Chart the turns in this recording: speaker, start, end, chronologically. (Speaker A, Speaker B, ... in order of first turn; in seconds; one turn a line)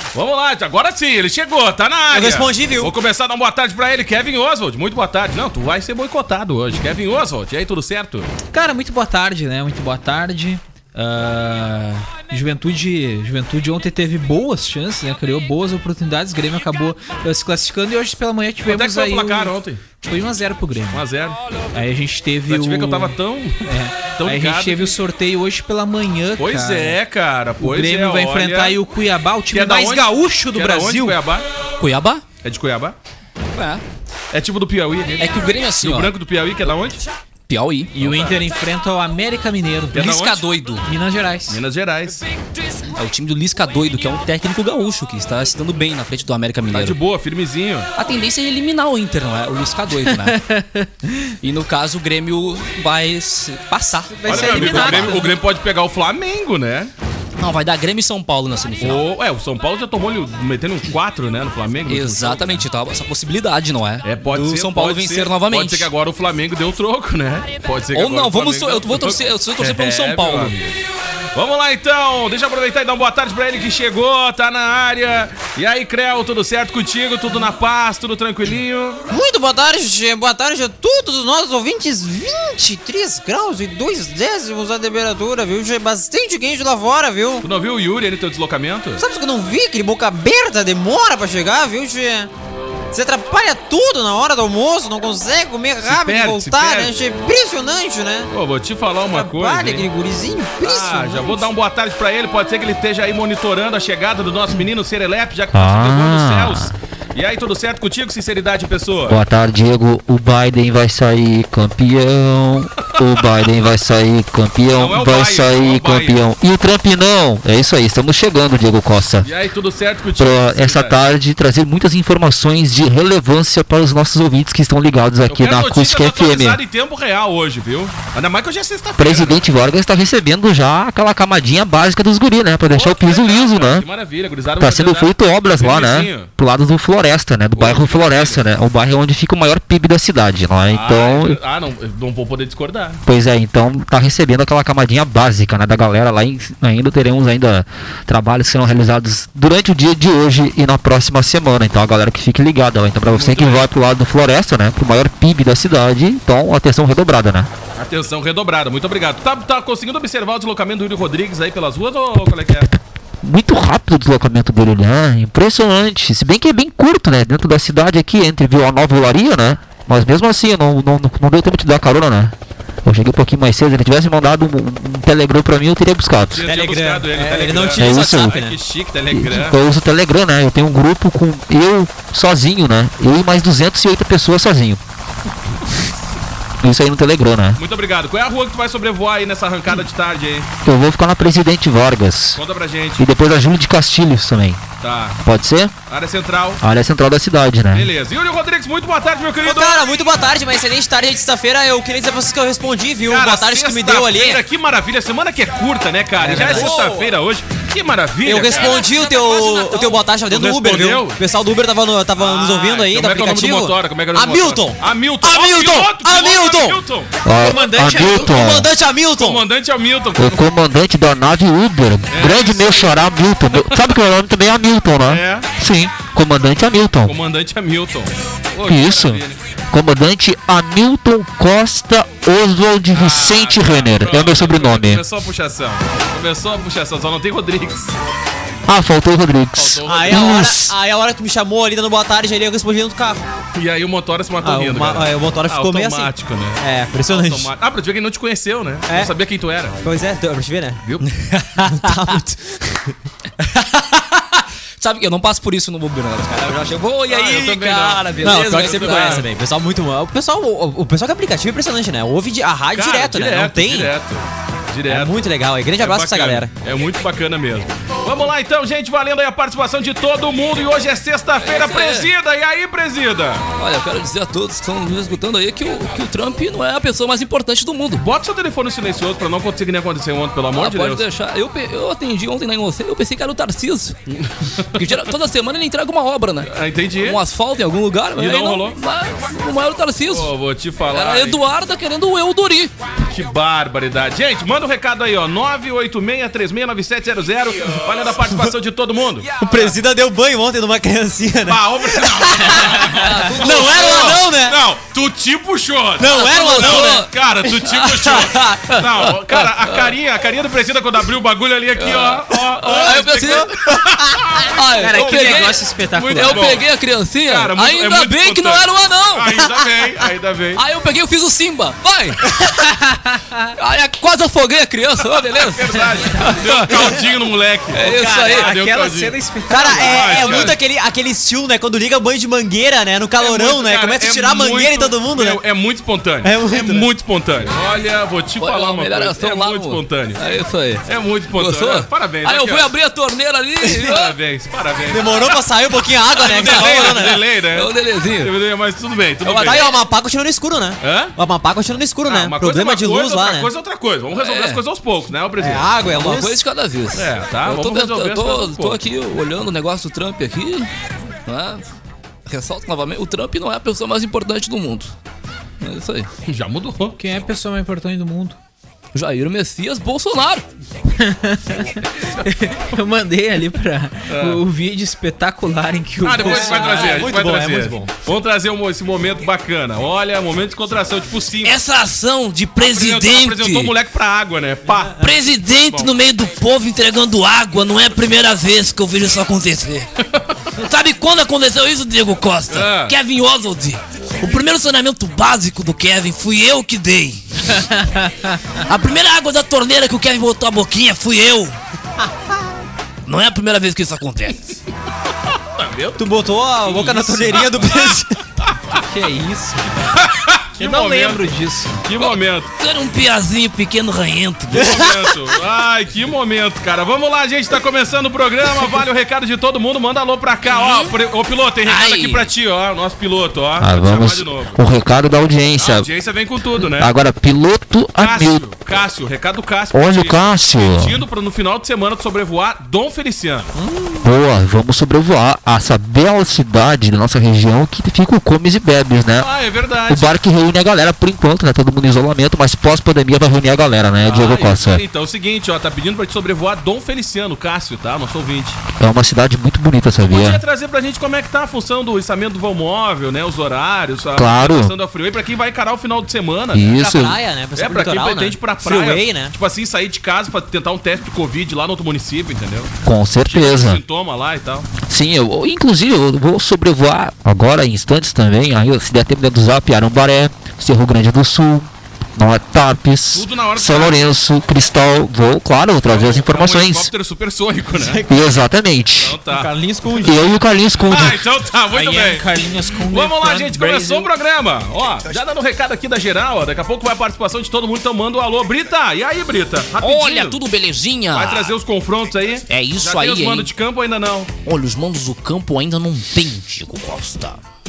Speaker A: 0.1-8.3
Speaker B: 2.1-2.9
Speaker C: 8.5-21.1
Speaker A: 18.7-19.8
Speaker A: 20.9-21.4
Speaker C: 21.7-27.0
Speaker A: 22.5-24.9
Speaker A: 26.4-28.8
Speaker C: 27.6-31.2
Speaker A: 29.5-31.5
Speaker D: 31.8-32.2
Speaker A: 32.4-33.0
Speaker D: 33.6-33.8
Speaker A: 34.3-37.0
Speaker D: 35.2-36.1
Speaker D: 37.5-38.3
Speaker C: 38.0-40.2
Speaker A: 39.9-40.4
Speaker D: 40.0-40.8
Speaker C: 40.9-41.6
Speaker A: 41.5-42.3
Speaker D: 42.9-47.0
Speaker A: 46.7-47.9
Speaker D: 48.0-50.4
Speaker C: 50.3-50.9
Speaker D: 51.4-55.3
Speaker C: 54.2-55.3
Speaker A: 54.2-56.9
Speaker D: 57.4-59.0
Speaker A: 58.8-62.7
Speaker D: 61.9-65.9
Speaker A: 64.0-70.8
Speaker D: 67.9-70.6
Speaker A: 71.3-79.0
Speaker B: 79.1-87.5
Speaker A: 87.4-89.0
Speaker B: 89.0-92.3
Speaker B: 92.9-98.3
Speaker A: 95.8-97.0
Speaker A: 98.3-99.9
Speaker B: 99.1-101.5
Speaker A: 100.6-109.2
Speaker E: 105.5-106.7
Speaker E: 109.1-119.3
Speaker A: 114.8-116.2
Speaker A: 119.2-121.0
Speaker E: 120.2-126.6
Speaker A: 125.3-129.4
Speaker E: 129.0-133.9
Speaker A: 132.7-136.3
Speaker E: 134.6-141.4
Speaker A: 137.6-138.4
Speaker A: 140.7-143.0
Speaker E: 143.1-157.5
Speaker A: 153.1-153.7
Speaker A: 157.8-162.7
Speaker E: 163.2-176.5
Speaker A: 176.3-179.6
Speaker B: 176.4-178.6
Speaker E: 177.7-178.4
Speaker E: 179.1-184.8
Speaker E: 186.6-187.6
Speaker A: 187.6-190.5
Speaker E: 190.7-192.4
Speaker A: 192.3-193.0
Speaker E: 193.0-194.7
Speaker A: 194.8-195.2
Speaker E: 195.2-195.8
Speaker A: 195.9-196.6
Speaker E: 196.6-197.9
Speaker A: 197.7-199.8
Speaker B: 199.4-204.4
Speaker A: 203.0-209.0
Speaker B: 206.2-207.1
Speaker D: 206.3-206.9
Speaker B: 208.2-219.5
Speaker D: 208.5-210.0
Speaker A: 210.1-211.2
Speaker A: 212.2-217.1
Speaker E: 217.2-218.7
Speaker A: 219.2-220.4
Speaker E: 220.2-227.1
Speaker A: 222.1-223.0
Speaker A: 225.1-225.5
Speaker A: 227.1-229.4
Speaker E: 228.6-235.0
Speaker A: 232.9-238.0
Speaker E: 238.7-240.7
Speaker A: 239.6-240.4
Speaker B: 239.8-243.3
Speaker A: 243.5-249.8
Speaker B: 244.4-247.5
Speaker B: 248.9-249.1
Speaker B: 249.8-250.8
Speaker D: 251.2-252.1
Speaker B: 251.6-252.9
Speaker D: 254.8-259.3
Speaker A: 257.1-259.3
Speaker B: 258.2-263.9
Speaker A: 262.7-265.1
Speaker B: 264.9-266.5
Speaker A: 265.8-273.5
Speaker D: 271.4-272.1
Speaker D: 273.6-278.0
Speaker A: 278.0-281.0
Speaker D: 280.6-284.0
Speaker A: 284.1-284.8
Speaker D: 284.7-290.3
Speaker A: 286.5-287.2
Speaker A: 288.1-288.8
Speaker A: 290.1-291.4
Speaker D: 290.9-292.7
Speaker A: 293.1-299.3
Speaker B: 299.4-304.6
Speaker A: 301.5-316.7
Speaker D: 302.8-304.3
Speaker B: 306.0-307.1
Speaker D: 306.1-309.9
Speaker D: 311.8-313.5
Speaker B: 312.9-313.4
Speaker D: 314.5-315.6
Speaker B: 314.8-316.6
Speaker C: 315.0-315.6
Speaker D: 316.1-319.3
Speaker A: 317.2-320.6
Speaker D: 320.6-322.4
Speaker C: 322.9-323.5
Speaker D: 323.6-327.0
Speaker A: 325.3-330.6
Speaker D: 327.7-328.5
Speaker C: 327.8-330.5
Speaker B: 329.5-335.4
Speaker A: 333.1-340.2
Speaker B: 336.2-336.9
Speaker D: 338.4-344.1
Speaker A: 340.9-342.7
Speaker A: 343.9-345.4
Speaker B: 344.9-347.3
Speaker A: 346.1-349.8
Speaker D: 346.2-348.3
Speaker B: 349.2-353.5
Speaker A: 350.8-351.2
Speaker A: 352.1-355.7
Speaker D: 354.1-354.6
Speaker B: 355.4-356.3
Speaker D: 355.9-360.7
Speaker A: 356.9-358.8
Speaker D: 361.3-361.7
Speaker D: 362.3-364.9
Speaker D: 365.6-366.1
Speaker A: 366.3-367.0
Speaker C: 366.9-368.4
Speaker D: 368.9-370.4
Speaker C: 371.0-377.1
Speaker A: 374.1-374.4
Speaker A: 376.0-381.6
Speaker B: 376.2-377.9
Speaker D: 381.4-383.7
Speaker A: 382.6-385.1
Speaker D: 384.9-389.9
Speaker A: 385.7-385.9
Speaker D: 390.6-397.7
Speaker A: 392.5-393.0
Speaker D: 398.6-401.6
Speaker D: 403.1-404.5
Speaker A: 405.6-408.6
Speaker B: 406.0-408.2
Speaker C: 408.8-409.8
Speaker A: 409.9-411.3
Speaker C: 410.6-411.9
Speaker A: 411.8-412.5
Speaker D: 412.0-414.7
Speaker A: 414.5-424.6
Speaker B: 414.6-414.9
Speaker D: 420.5-420.9
Speaker D: 421.7-422.3
Speaker E: 423.6-425.9
Speaker A: 425.6-426.9
Speaker E: 426.6-428.4
Speaker A: 428.0-433.5
Speaker E: 429.7-431.0
Speaker E: 434.0-439.3
Speaker A: 439.2-440.1
Speaker E: 439.9-444.8
Speaker A: 444.0-448.6
Speaker E: 448.8-450.4
Speaker A: 450.0-456.8
Speaker E: 454.2-454.7
Speaker E: 456.5-457.2
Speaker B: 456.7-459.4
Speaker A: 457.6-462.7
Speaker E: 462.9-463.8
Speaker A: 463.3-464.7
Speaker E: 464.8-476.9
Speaker A: 473.1-474.1
Speaker A: 475.9-478.0
Speaker B: 477.7-478.2
Speaker E: 478.1-479.2
Speaker A: 479.0-479.5
Speaker B: 479.3-480.4
Speaker E: 480.0-481.2
Speaker A: 480.8-482.3
Speaker C: 481.7-484.1
Speaker A: 482.9-490.4
Speaker D: 489.8-491.6
Speaker A: 491.1-494.3
Speaker D: 492.5-493.5
Speaker D: 494.5-497.4